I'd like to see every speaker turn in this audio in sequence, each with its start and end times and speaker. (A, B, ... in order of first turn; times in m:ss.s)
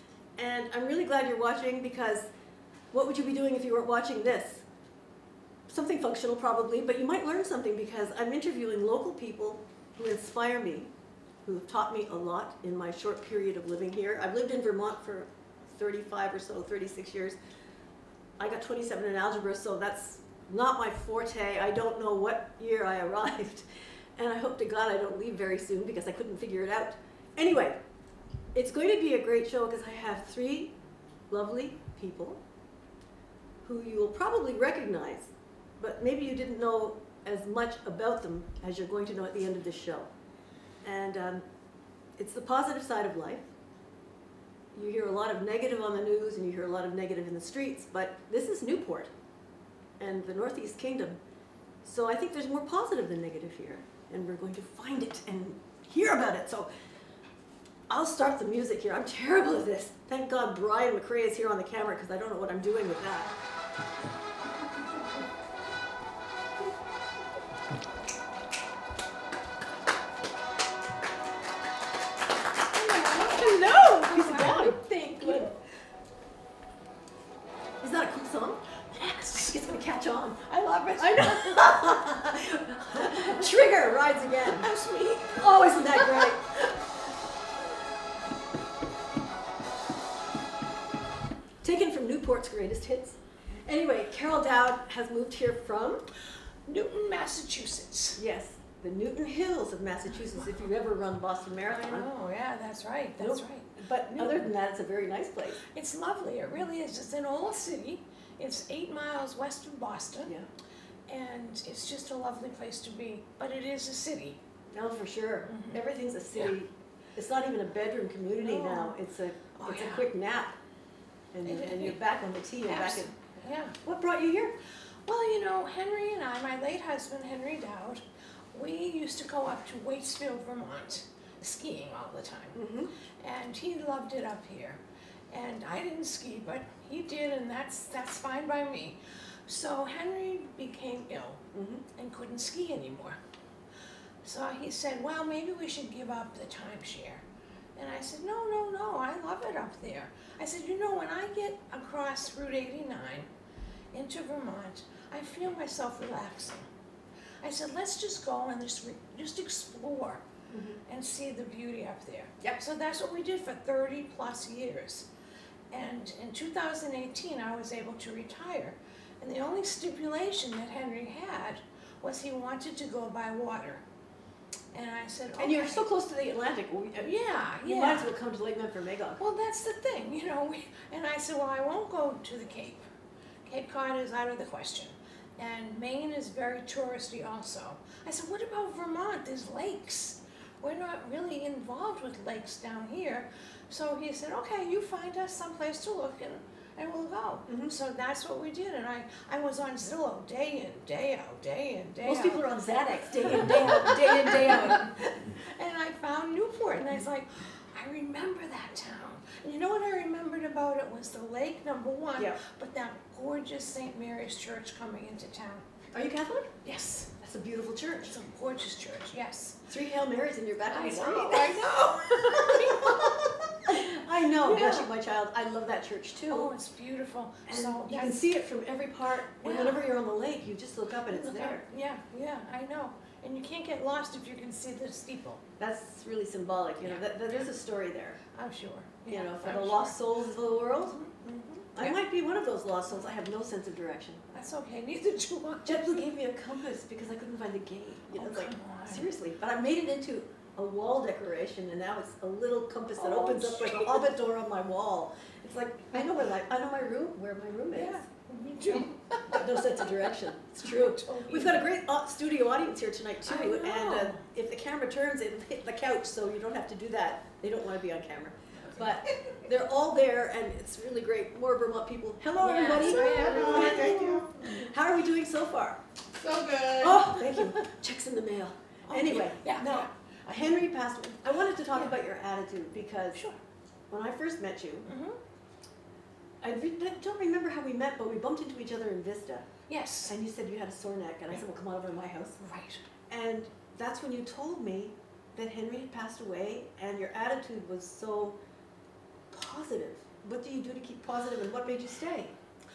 0:00.4-0:02.3 A
0:02.9-0:04.6 A
0:05.7-0:10.9 A
0:11.4-0:17.4 A
0:18.4-0:27.8 A
0:28.5-0:30.7 A
0:31.3-0:32.4 A
0:33.6-0:40.1 A
0:40.8-0:41.4 A
0:42.2-0:43.5 A
0:44.7-0:49.1 A
0:50.0-0:51.2 A
0:51.8-0:56.7 A
0:57.9-1:03.3 A
1:12.8-1:15.5 B
1:12.8-1:15.5 A
1:17.8-1:18.6 A
1:18.9-1:19.7 B
1:19.3-1:24.7 A
1:20.5-1:21.8 B
1:22.9-1:23.4 B
1:24.5-1:26.4 B
1:25.3-1:26.4 A
1:31.6-1:36.0 A
1:36.7-1:38.2 B
1:38.2-1:42.1 A
1:41.7-1:44.5 B
1:43.2-1:45.6 A
1:45.7-1:50.3 B
1:51.1-1:54.4 B
1:54.7-2:00.6 A
1:55.5-1:55.8 B
1:58.4-1:59.0 B
1:59.6-2:00.1 B
2:01.3-2:03.1 A
2:01.4-2:02.0 B
2:02.7-2:03.8 B
2:03.8-2:04.6 A
2:05.1-2:08.0 B
2:08.5-2:12.6 B
2:12.5-2:12.9 A
2:13.2-2:14.8 B
2:15.3-2:21.4 B
2:21.5-2:21.8 A
2:22.0-2:23.2 B
2:24.2-2:27.2 B
2:27.8-2:33.3 B
2:33.9-2:36.7 B
2:37.4-2:40.2 B
2:40.5-2:40.8 A
2:40.9-2:45.1 B
2:45.7-2:53.8 B
2:54.7-2:55.9 B
2:55.4-2:59.2 A
2:57.0-2:58.1 B
2:59.2-3:02.9 B
3:03.4-3:22.4 B
3:17.5-3:17.7 A
3:22.0-3:24.9 A
3:23.2-3:35.7 B
3:35.9-3:36.5 A
3:36.6-3:37.1 B
3:37.2-3:38.2 A
3:38.0-3:39.6 B
3:39.7-3:46.5 A
3:40.7-3:43.2 B
3:44.4-3:44.9 B
3:46.3-3:48.2 B
3:47.5-3:51.6 A
3:49.4-3:49.8 B
3:51.1-3:55.4 B
3:55.6-3:58.2 A
3:56.8-3:57.5 B
3:58.3-4:00.0 B
3:59.1-4:01.0 A
4:00.9-4:02.0 B
4:01.8-4:04.2 A
4:04.3-4:06.0 B
4:05.6-4:18.0 A
4:08.1-4:09.1 B
4:13.0-4:14.0 B
4:17.7-4:21.6 B
4:19.3-4:35.8 A
4:23.2-4:24.2 B
4:32.4-4:34.7 B
4:32.8-4:34.3 C
4:36.2-4:37.2 C
4:36.8-4:43.2 A
4:38.9-4:40.6 B
4:41.7-4:42.0 B
4:43.9-4:44.9 A
4:44.8-4:45.2 B
4:46.4-4:49.4 A
4:49.7-4:50.1 B
4:50.0-4:52.4 A
4:52.4-4:52.8 B
4:53.1-4:58.4 A
4:59.3-5:02.3 A